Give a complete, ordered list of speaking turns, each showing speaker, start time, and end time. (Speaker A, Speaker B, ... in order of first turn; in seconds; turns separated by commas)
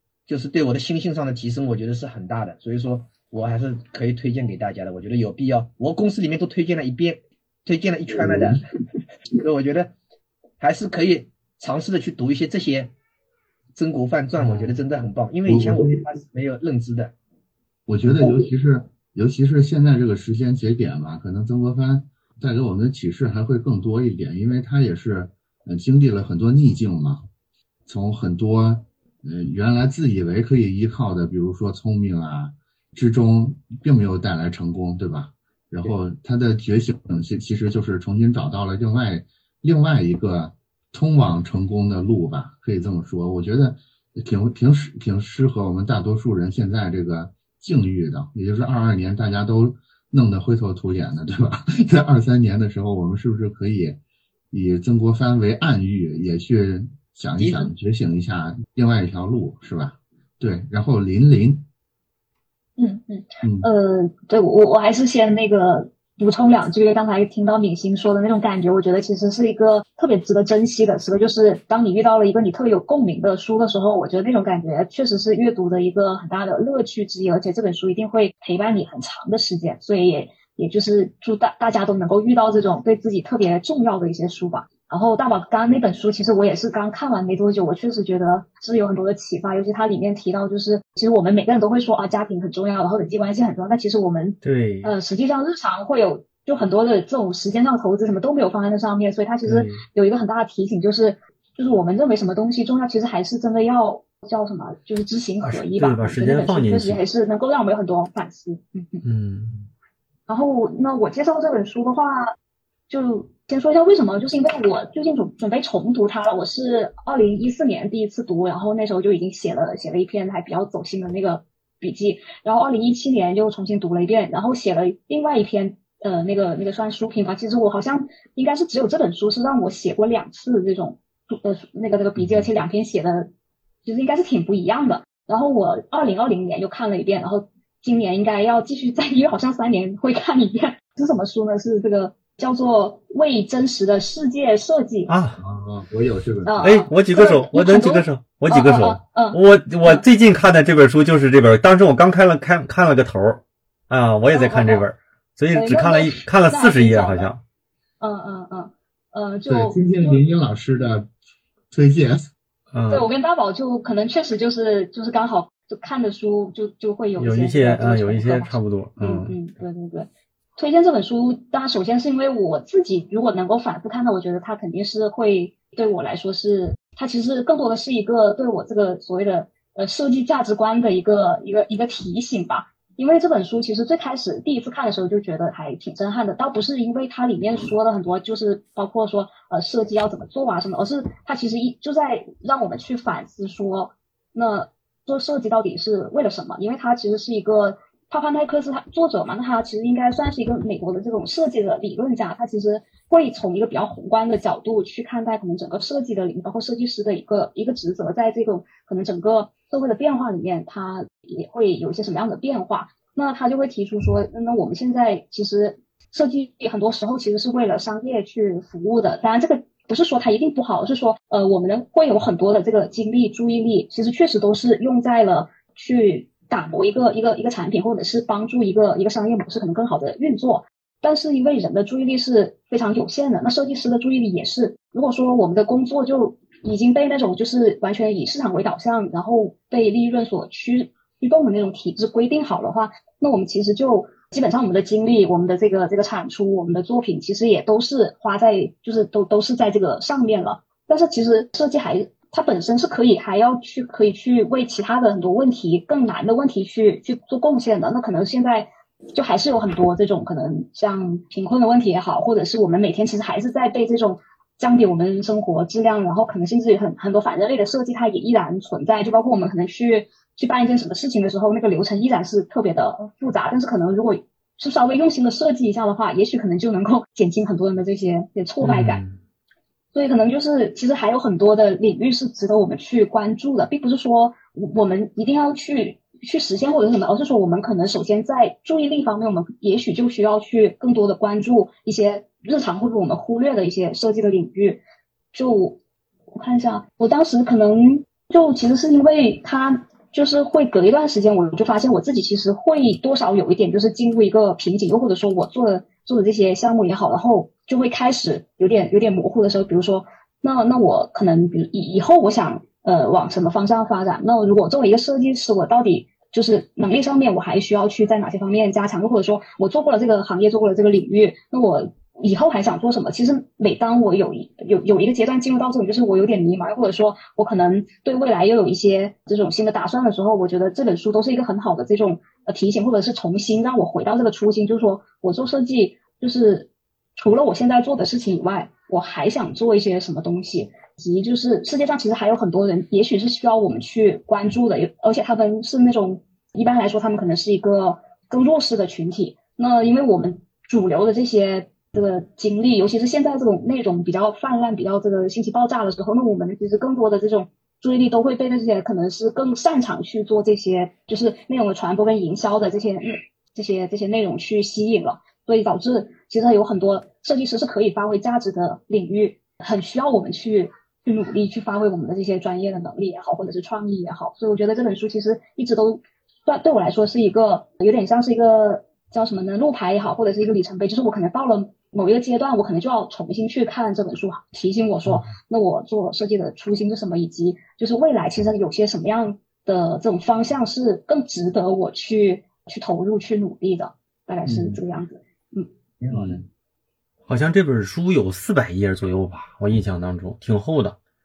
Speaker A: 0.3-8.6, Speaker B: 8.2-8.6, Speaker A: 9.3-9.9, Speaker A: 10.6-12.9, Speaker A: 13.8-17.1, Speaker B: 14.4-14.8, Speaker B: 15.5-16.0, Speaker B: 17.9-27.2, Speaker B: 27.9-54.0, Speaker B: 54.5-61.7, Speaker A: 57.4-57.7, Speaker C: 62.8-109.0, Speaker B: 63.4-63.7, Speaker D: 94.4-94.9, Speaker D: 99.5-99.8, Speaker D: 105.4-107.0, Speaker D: 109.0-109.7, Speaker C: 110.3-112.3, Speaker C: 112.9-133.3, Speaker C: 133.8-145.1, Speaker D: 145.1-145.4, Speaker B: 145.4-146.7, Speaker C: 146.4-150.0, Speaker D: 146.6-157.4, Speaker C: 154.3-154.9, Speaker C: 155.5-157.3, Speaker C: 158.0-160.2, Speaker B: 159.5-161.1, Speaker B: 161.7-162.3, Speaker D: 162.7-163.1, Speaker C: 162.9-279.0, Speaker D: 167.2-169.4, Speaker D: 278.6-279.2, Speaker C: 279.9-294.8, Speaker C: 295.3-295.8, Speaker C: 296.4-395.7, Speaker B: 394.4-394.8, Speaker A: 396.0-396.4, Speaker B: 396.1-396.4, Speaker D: 397.3-401.0